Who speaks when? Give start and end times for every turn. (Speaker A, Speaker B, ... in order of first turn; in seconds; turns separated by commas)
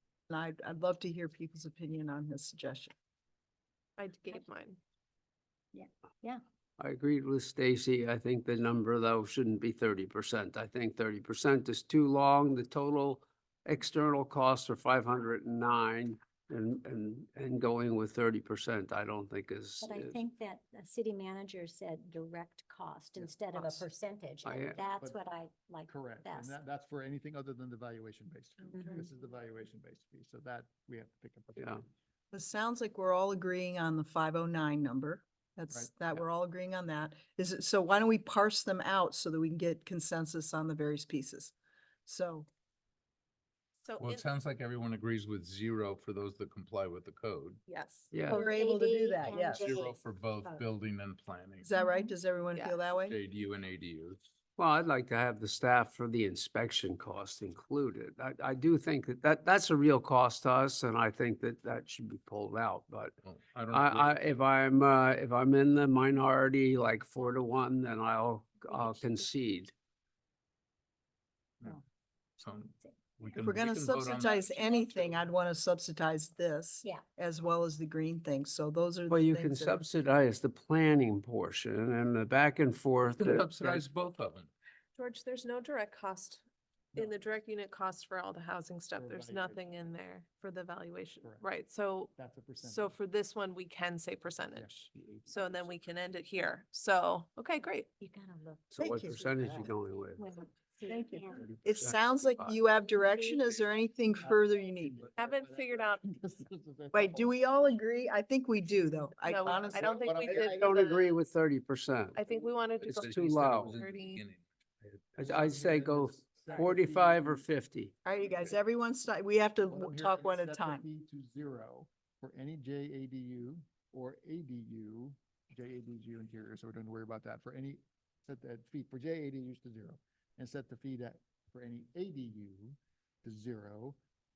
Speaker A: 0.3-2.9, Speaker B: 4.0-4.8, Speaker C: 5.7-6.4, Speaker D: 6.8-20.2, Speaker C: 19.8-26.6, Speaker A: 23.5-23.8, Speaker D: 24.4-24.8, Speaker E: 25.9-31.9, Speaker A: 32.3-41.5, Speaker E: 35.7-36.2, Speaker A: 42.1-42.5, Speaker B: 43.8-44.3, Speaker F: 44.0-47.6, Speaker B: 47.7-48.1, Speaker D: 48.1-48.5, Speaker C: 48.3-50.0, Speaker A: 48.3-49.9, Speaker F: 49.2-51.7, Speaker A: 51.6-53.2, Speaker B: 52.5-53.0, Speaker F: 53.1-54.2, Speaker D: 54.6-63.1, Speaker F: 63.2-64.3, Speaker D: 63.7-69.7, Speaker F: 72.4-75.2, Speaker A: 73.4-79.8, Speaker D: 79.1-83.8, Speaker F: 83.1-84.5, Speaker B: 85.0-86.4, Speaker B: 87.0-97.9, Speaker E: 88.9-89.9, Speaker E: 91.2-91.5, Speaker E: 92.2-92.9, Speaker C: 98.0-101.5, Speaker D: 98.7-100.3, Speaker A: 98.8-99.3, Speaker A: 100.9-105.1, Speaker D: 101.5-102.6, Speaker C: 102.8-103.5, Speaker E: 104.2-107.3, Speaker B: 105.2-106.0, Speaker A: 106.9-110.8, Speaker B: 109.2-111.0, Speaker E: 109.5-111.1, Speaker D: 110.4-112.2, Speaker B: 112.1-114.2, Speaker F: 112.8-115.0, Speaker D: 112.8-113.8, Speaker D: 115.2-117.9, Speaker E: 115.2-117.5, Speaker A: 118.0-120.8, Speaker E: 118.2-118.5, Speaker E: 119.7-134.0